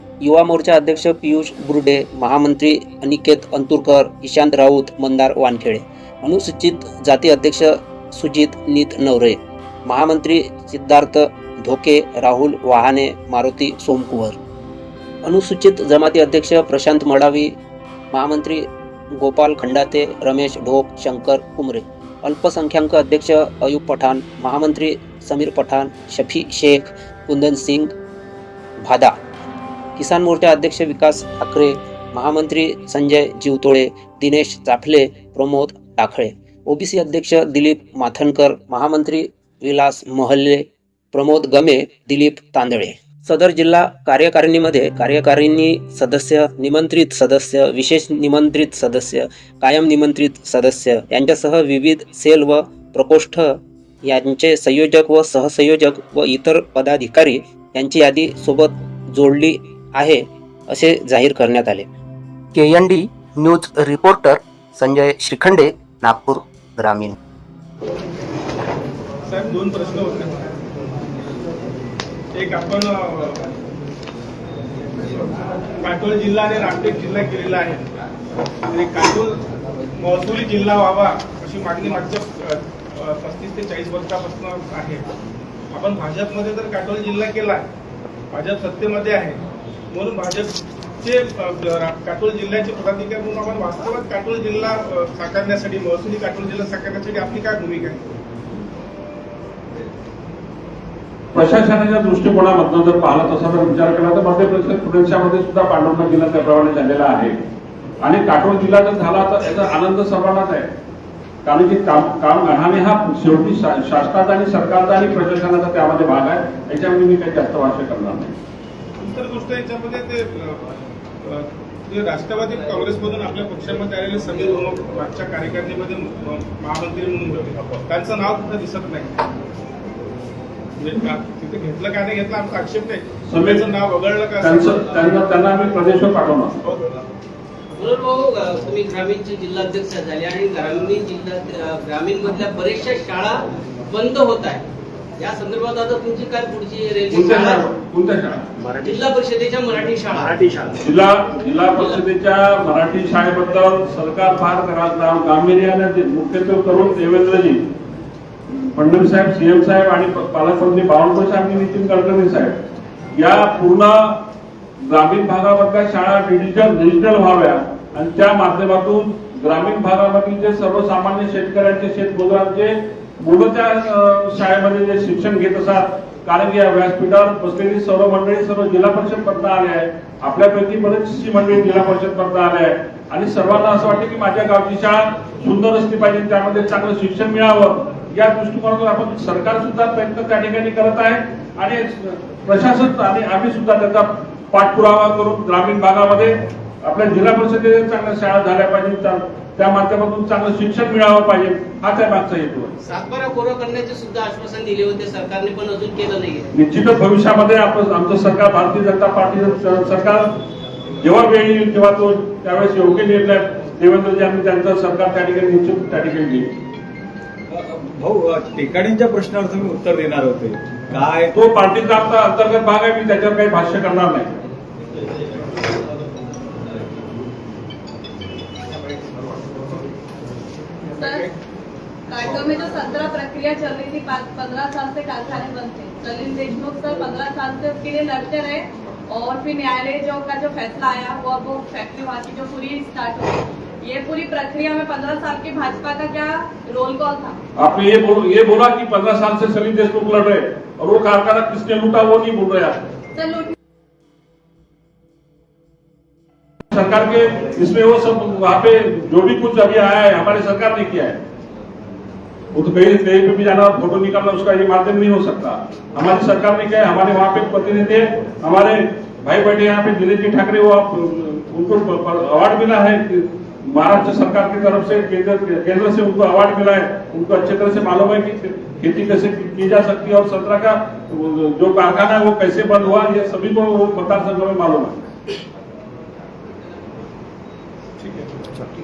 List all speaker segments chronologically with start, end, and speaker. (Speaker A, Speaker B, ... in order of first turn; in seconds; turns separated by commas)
Speaker A: 0.2-14.4, Speaker A: 15.2-17.5, Speaker A: 18.1-27.9, Speaker A: 28.8-29.1, Speaker A: 30.0-53.5, Speaker A: 54.0-61.9, Speaker A: 62.5-67.2, Speaker B: 69.3-70.5, Speaker B: 72.3-73.4, Speaker B: 75.2-77.8, Speaker B: 78.7-79.4, Speaker B: 80.0-85.0, Speaker B: 85.7-87.7, Speaker B: 88.3-89.4, Speaker B: 89.9-98.0, Speaker C: 101.3-107.4, Speaker C: 108.0-110.7, Speaker C: 111.5-118.3, Speaker B: 119.0-120.6, Speaker B: 121.2-129.2, Speaker B: 130.8-135.1, Speaker C: 133.3-133.7, Speaker C: 134.4-136.6, Speaker D: 137.8-144.6, Speaker D: 145.2-147.6, Speaker C: 147.1-148.5, Speaker D: 148.7-150.8, Speaker C: 150.8-157.6, Speaker C: 158.5-162.6, Speaker C: 163.2-164.2, Speaker C: 164.8-202.7, Speaker D: 202.8-206.5, Speaker C: 206.5-210.3, Speaker C: 211.0-216.5, Speaker E: 217.5-221.3, Speaker C: 221.3-224.3, Speaker F: 231.0-231.3, Speaker F: 232.1-247.4, Speaker C: 247.6-252.8, Speaker F: 253.2-253.5, Speaker C: 256.7-261.2, Speaker C: 262.5-285.0, Speaker B: 288.0-288.3